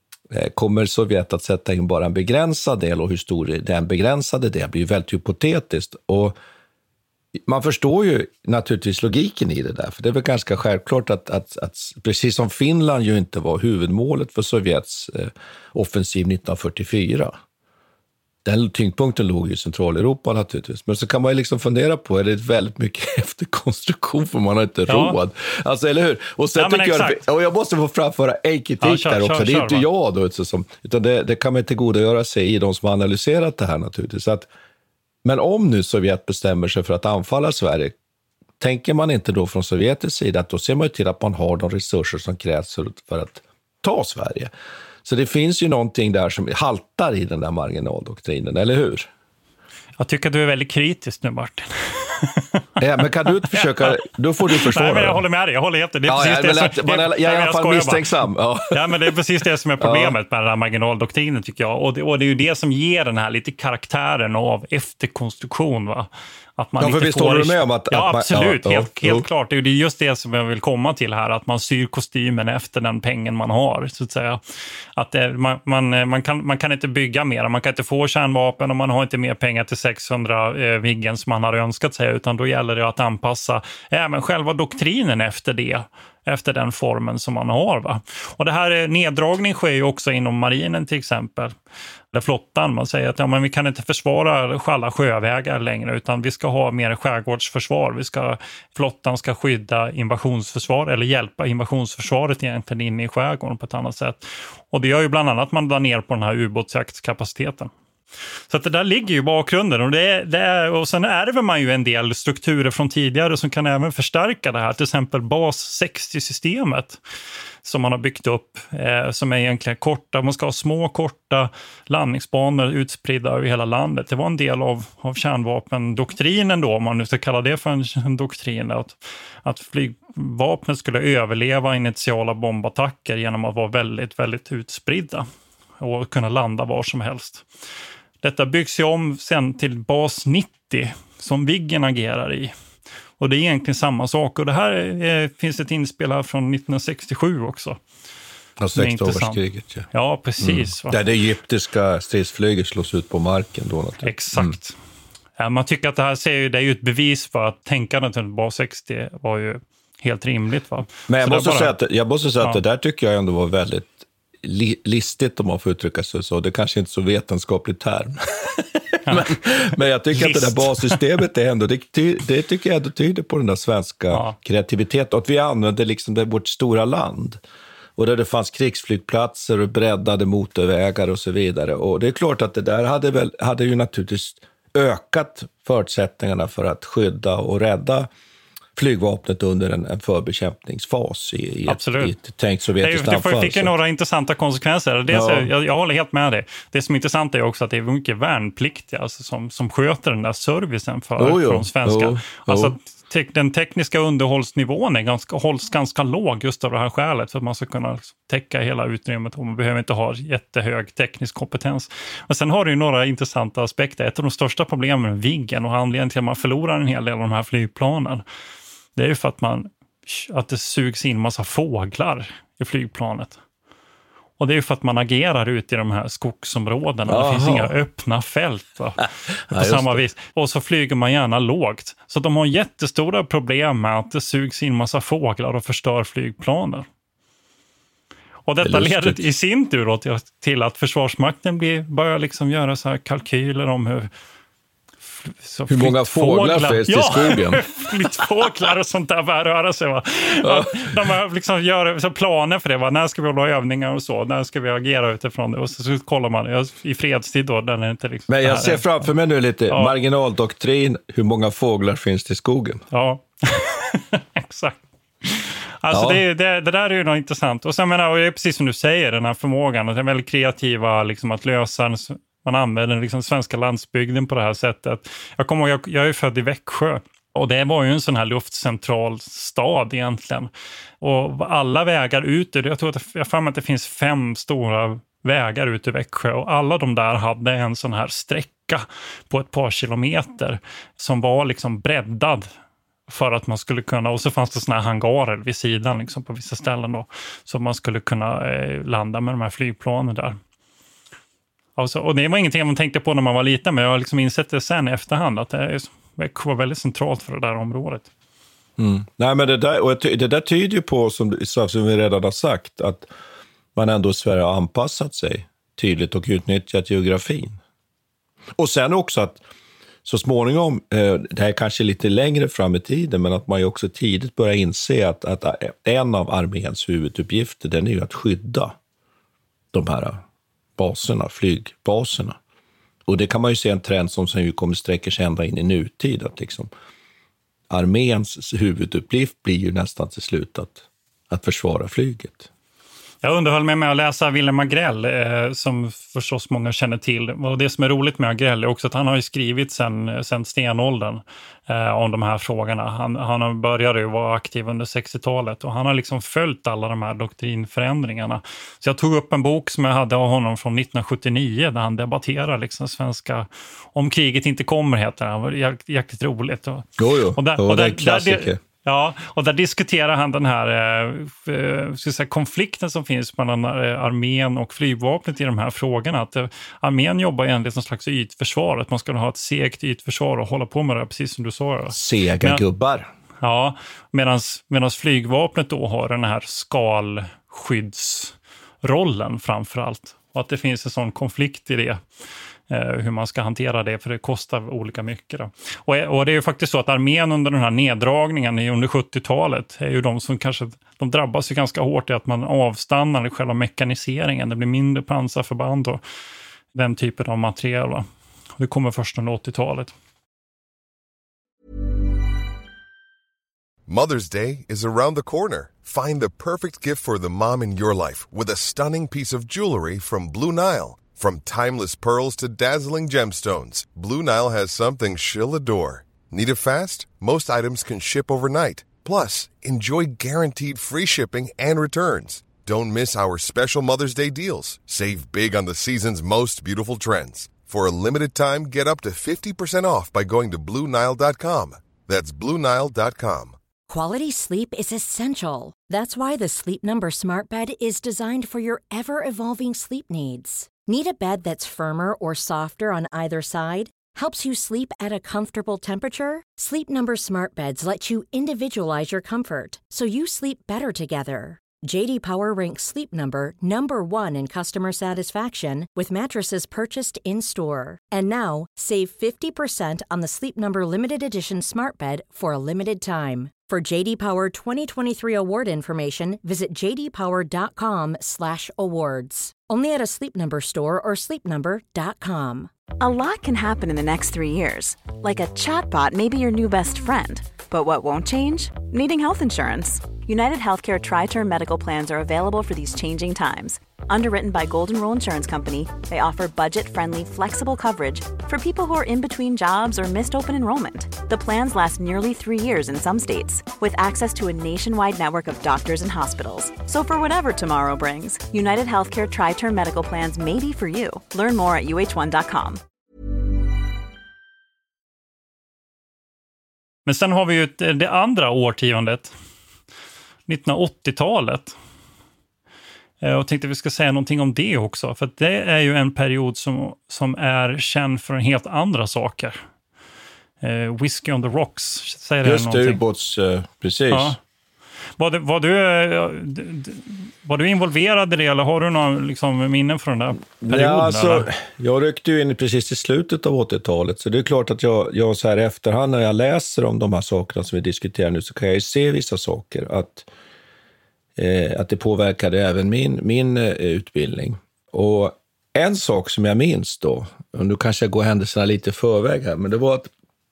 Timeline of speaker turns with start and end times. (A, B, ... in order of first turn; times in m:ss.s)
0:00.3-0:06.4 A
0:07.3-0:17.4 A
0:18.4-0:34.5 A
0:24.9-0:25.2 B
0:26.6-0:27.2 B
0:28.8-0:29.8 B
0:35.2-0:37.9 A
0:38.6-0:44.5 A
0:45.0-0:49.1 A
0:50.0-0:52.6 B
0:52.8-0:55.2 A
0:53.5-0:58.1 B
0:56.1-0:59.1 A
0:58.7-1:14.4 B
0:59.8-1:00.2 A
1:06.8-1:09.3 A
1:15.0-1:31.5 B
1:32.1-1:47.7 B
1:48.5-1:57.0 B
1:57.6-2:15.2 B
2:15.8-2:17.4 B
2:18.2-2:22.5 B
2:23.2-2:27.8 B
2:28.6-2:29.9 A
2:28.7-2:29.4 B
2:29.9-2:31.0 B
2:30.4-2:34.6 A
2:34.0-2:34.7 B
2:35.4-2:41.8 B
2:41.1-2:57.4 A
2:49.0-2:49.4 B
2:50.1-2:51.0 B
2:54.1-2:54.4 B
2:58.0-3:08.1 A
3:08.8-3:13.7 A
3:11.7-3:12.2 B
3:12.8-3:38.2 B
3:15.1-3:15.5 A
3:21.2-3:22.7 A
3:39.0-3:43.4 B
3:44.4-3:56.8 B
3:47.1-3:47.7 A
3:49.0-3:50.0 A
3:58.4-4:04.1 B
3:58.6-3:59.3 A
4:05.2-4:19.1 B
4:05.7-4:08.2 A
4:10.4-4:10.9 A
4:18.3-4:22.8 A
4:22.9-4:40.5 B
4:25.9-4:26.2 A
4:41.0-4:52.5 B
4:53.1-5:00.4 B
5:01.8-5:08.1 B
5:08.8-5:13.1 A
5:13.7-5:17.6 A
5:18.6-5:19.4 A
5:20.0-5:28.8 A
5:29.7-5:30.2 A
5:30.8-5:32.4 A
5:33.0-5:36.7 A
5:37.7-5:42.5 A
5:43.2-6:22.6 B
6:07.0-6:08.6 A
6:21.9-6:23.1 A
6:23.4-6:32.0 B
6:32.7-6:46.0 B
6:46.7-6:48.0 B
6:48.6-6:49.9 B
6:53.9-7:23.6 C
7:23.9-8:02.7 D
8:03.0-8:32.8 E
8:37.0-8:39.3 B
8:40.5-8:41.7 B
8:43.2-8:49.6 B
8:50.6-8:53.0 B
8:52.4-8:54.4 A
8:54.1-8:54.4 B
8:55.2-9:01.5 B
9:00.6-9:10.3 A
9:11.4-9:20.1 A